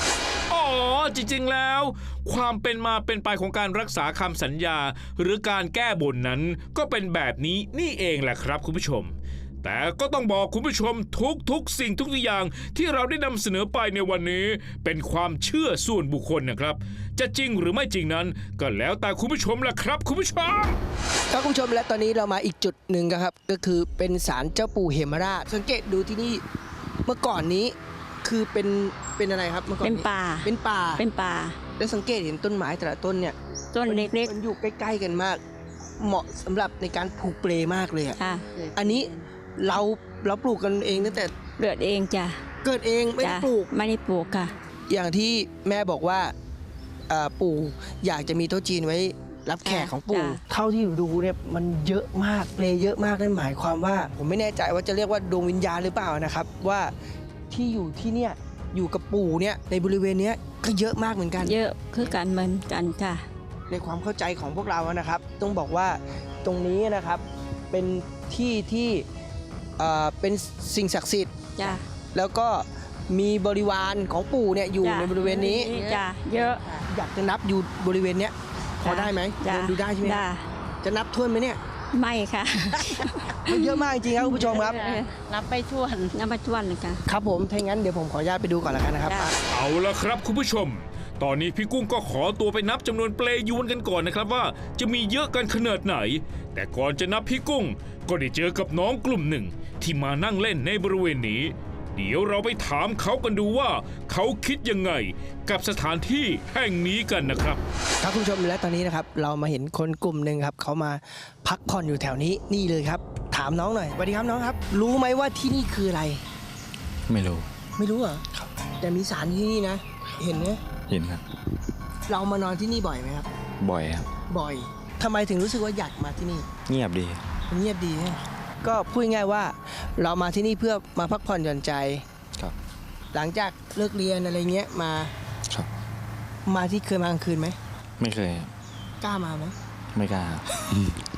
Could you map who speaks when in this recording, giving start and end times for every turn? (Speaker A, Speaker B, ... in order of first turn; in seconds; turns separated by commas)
Speaker A: 0.5-20.8, Speaker B: 21.3-26.4, Speaker B: 27.1-31.0, Speaker C: 29.8-31.6, Speaker B: 31.8-35.4, Speaker C: 33.7-34.3, Speaker B: 36.0-38.2, Speaker C: 38.1-38.5, Speaker D: 38.5-39.2, Speaker B: 38.7-41.4, Speaker C: 41.6-42.4, Speaker B: 42.6-43.7, Speaker C: 43.2-44.5, Speaker B: 44.9-46.3, Speaker B: 47.1-56.9, Speaker C: 49.6-50.4, Speaker B: 57.5-61.6, Speaker C: 61.4-63.2, Speaker B: 63.7-69.0, Speaker B: 69.8-75.7, Speaker C: 71.6-71.8, Speaker C: 74.8-76.6, Speaker D: 75.2-76.9, Speaker B: 76.9-80.2, Speaker C: 78.8-80.4, Speaker B: 80.8-81.6, Speaker C: 81.9-83.9, Speaker D: 82.7-83.4, Speaker B: 83.5-84.8, Speaker D: 84.2-86.2, Speaker C: 84.7-85.1, Speaker C: 86.1-87.0, Speaker B: 87.1-89.3, Speaker C: 89.1-89.3, Speaker A: 89.5-107.6, Speaker B: 108.0-116.2, Speaker E: 117.1-117.5, Speaker B: 117.8-118.2, Speaker B: 118.8-120.6, Speaker E: 120.9-121.2, Speaker B: 122.1-123.3, Speaker E: 123.6-124.1, Speaker B: 124.3-126.5, Speaker E: 126.7-127.2, Speaker B: 127.5-132.0, Speaker B: 133.1-135.1, Speaker B: 136.5-137.6, Speaker E: 138.0-138.5, Speaker B: 139.0-139.6, Speaker E: 139.9-140.8